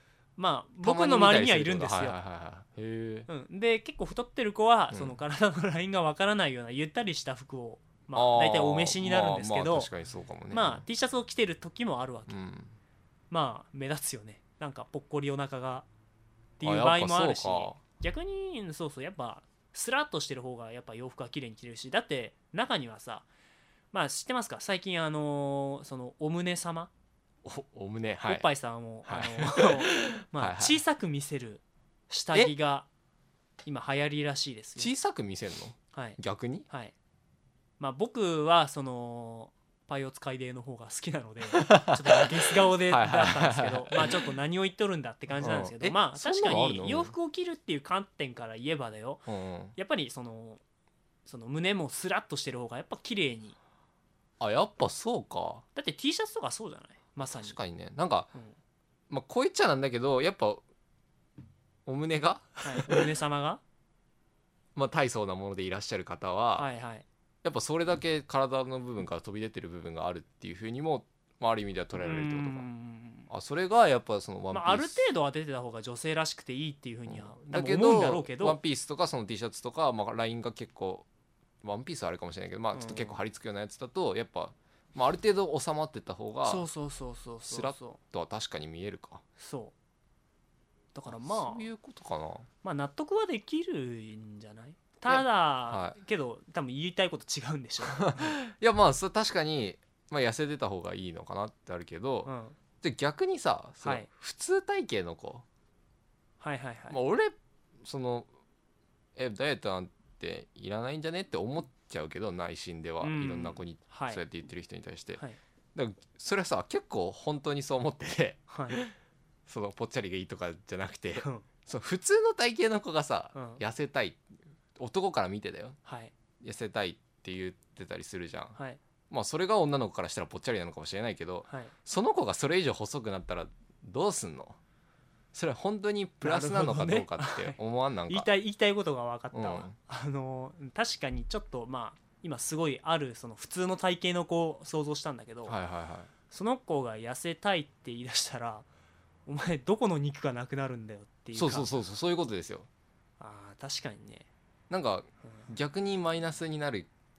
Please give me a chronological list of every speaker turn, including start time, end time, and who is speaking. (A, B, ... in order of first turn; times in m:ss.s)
0:00.4-0:02.2 A
0:00.8-0:03.3 B
0:03.3-0:09.9 A
0:04.9-0:05.2 B
0:08.1-0:10.8 B
0:10.5-0:12.4 A
0:12.3-0:12.8 B
0:13.3-0:15.8 A
0:16.6-0:23.3 A
0:16.6-0:17.8 B
0:23.9-0:26.9 A
0:27.4-0:28.4 B
0:28.2-0:32.9 A
0:29.0-0:30.8 B
0:33.6-0:34.9 A
0:34.8-0:36.6 B
0:35.9-0:36.9 A
0:37.8-0:50.6 A
0:41.5-0:44.3 B
0:45.4-0:47.1 B
0:49.3-0:49.8 B
0:51.2-0:53.6 A
0:54.4-0:55.6 B
0:55.7-0:57.6 A
0:57.4-0:58.3 B
0:59.1-1:00.6 B
1:01.8-1:03.0 B
1:02.6-1:03.6 A
1:04.7-1:06.7 B
1:06.6-1:07.0 A
1:07.4-1:12.6 B
1:11.9-1:13.3 A
1:13.3-1:15.0 B
1:14.5-1:18.6 A
1:17.1-1:21.0 B
1:21.6-1:26.6 B
1:22.7-1:23.2 A
1:26.4-1:28.0 A
1:27.4-1:29.2 B
1:29.4-1:29.7 A
1:30.9-1:31.7 A
1:31.1-1:32.5 B
1:32.6-1:38.4 A
1:35.1-1:36.0 B
1:37.9-1:45.4 B
1:42.2-1:42.6 A
1:43.8-1:44.1 A
1:46.4-1:47.0 A
1:46.9-1:48.3 B
1:49.2-1:55.2 B
1:53.0-1:54.2 A
1:55.7-1:58.9 B
1:58.5-1:58.8 A
1:59.5-2:04.2 B
2:01.2-2:01.4 A
2:03.3-2:03.6 A
2:04.8-2:05.8 B
2:05.8-2:06.1 A
2:06.4-2:08.6 B
2:09.1-2:14.6 B
2:11.5-2:11.7 A
2:15.3-2:18.3 B
2:16.2-2:17.6 A
2:18.1-2:25.6 A
2:19.3-2:19.8 B
2:25.5-2:26.1 B
2:26.3-2:28.6 A
2:29.2-2:31.7 A
2:31.3-2:32.7 B
2:33.2-2:34.3 A
2:34.7-2:36.9 B